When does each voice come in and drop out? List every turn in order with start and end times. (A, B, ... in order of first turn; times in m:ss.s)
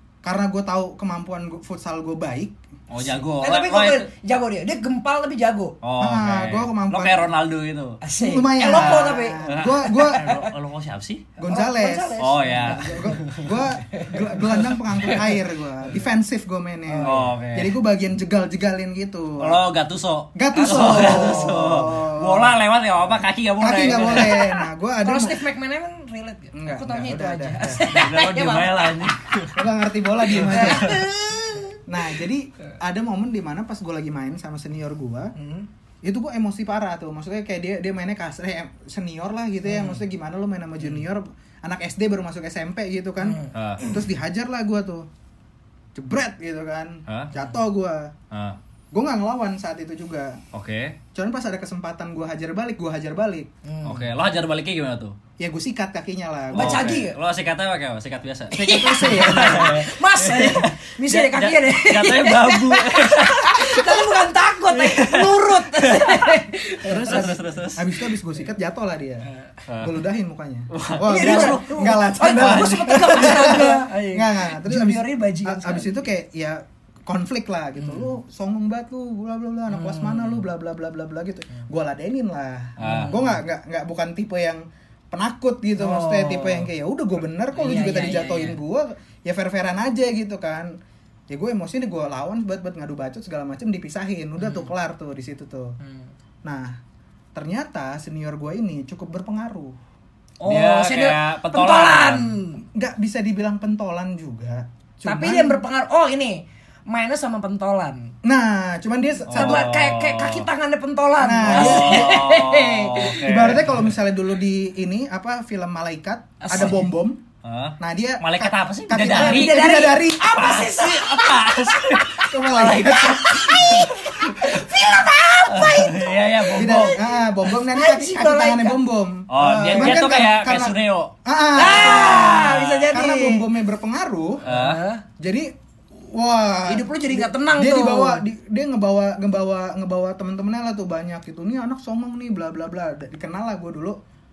0:00.2-0:02.6 A
0:02.9-0:04.1 B
0:03.4-0:05.8 C
0:05.8-0:08.0 B
0:06.0-0:07.3 A
0:08.0-0:10.5 C
0:08.2-0:10.3 A
0:08.6-0:11.3 B
0:11.4-0:19.6 A
0:11.4-0:13.4 C
0:12.2-0:13.3 B
0:13.9-0:14.4 C
0:16.9-0:17.3 C
0:17.0-0:17.8 B
0:19.4-0:24.5 B
0:20.3-0:22.6 A
0:23.6-0:25.4 A
0:25.0-0:29.2 C
0:26.5-0:28.0 A
0:27.8-0:29.6 B
0:29.5-0:31.0 A
0:30.3-0:31.0 B
0:30.3-0:31.8 C
0:31.9-0:35.3 A
0:35.3-0:35.7 C
0:36.0-0:45.0 A
0:39.6-0:40.0 C
0:43.2-0:44.0 C
0:43.5-0:43.8 B
0:45.9-0:48.1 A
0:47.1-0:47.3 B
0:48.3-0:48.6 B
0:48.9-0:50.4 A
0:50.5-0:51.0 B
0:51.1-0:53.5 A
0:53.6-0:54.1 C
0:53.8-0:55.1 B
0:55.4-0:56.9 A
0:56.5-0:57.2 C
0:56.5-1:04.0 B
0:58.5-0:59.8 A
0:58.6-1:07.5 C
1:04.7-1:06.3 B
1:06.8-1:08.0 B
1:07.7-1:09.3 A
1:09.7-1:10.0 B
1:09.8-1:30.7 A
1:10.7-1:11.7 B
1:11.0-1:16.0 C
1:12.2-1:13.7 B
1:17.8-1:18.1 C
1:19.7-1:20.4 C
1:22.8-1:23.2 B
1:22.8-1:23.3 C
1:25.8-1:26.7 C
1:27.5-1:28.6 C
1:31.3-1:35.8 A
1:34.4-1:34.7 C
1:35.8-1:36.1 C
1:36.4-1:36.8 A
1:37.3-1:39.8 A
1:40.4-1:42.6 C
1:40.4-1:42.3 B
1:42.7-1:45.6 A
1:45.0-1:48.1 C
1:48.2-1:49.7 A
1:49.3-1:50.5 B
1:49.3-1:53.3 C
1:51.2-1:52.3 A
1:51.5-1:53.9 B
1:53.2-1:57.2 A
1:56.4-1:56.9 C
1:57.4-1:59.8 B
1:57.8-2:00.5 A
1:59.0-2:08.8 C
2:00.3-2:04.7 B
2:02.2-2:03.9 A
2:05.5-2:07.0 B
2:06.5-2:14.4 A
2:09.3-2:11.1 B
2:09.7-2:10.0 C
2:11.5-2:13.5 C
2:14.4-2:15.0 C
2:14.4-2:14.8 B
2:15.2-2:24.0 A
2:16.7-2:18.2 C